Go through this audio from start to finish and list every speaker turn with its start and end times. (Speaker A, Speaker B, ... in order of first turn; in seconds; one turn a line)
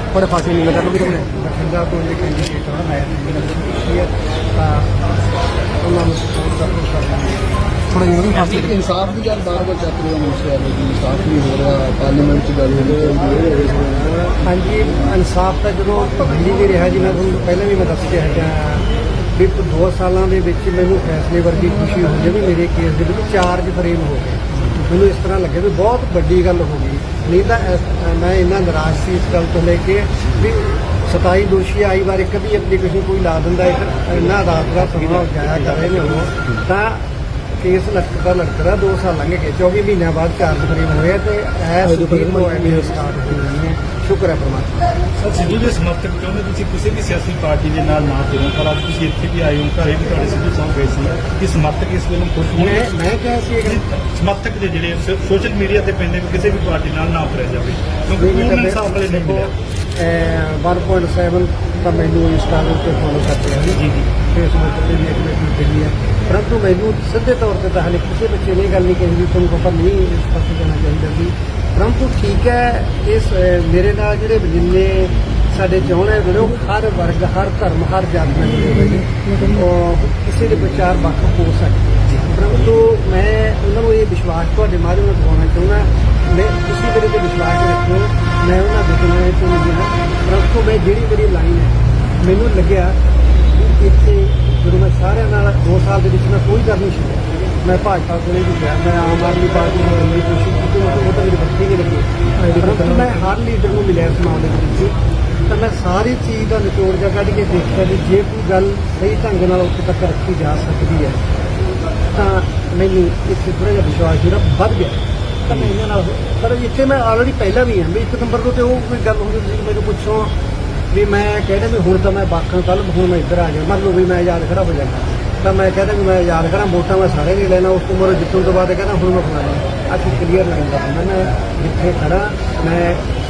Speaker A: 0.1-1.3
Speaker B: 1.2-5.1
Speaker B: 5.8-7.5
Speaker A: 7.9-8.7
Speaker C: 8.3-14.2
Speaker B: 14.4-37.0
Speaker D: 34.7-36.3
Speaker B: 37.6-44.9
Speaker A: 41.8-42.9
Speaker D: 45.2-52.9
Speaker B: 52.6-53.8
Speaker D: 53.6-59.5
Speaker B: 58.2-93.0
Speaker D: 63.8-64.0
Speaker A: 79.2-79.5
Speaker B: 93.5-111.2
Speaker A: 102.4-103.2
Speaker B: 112.1-120.3
Speaker B: 120.9-133.1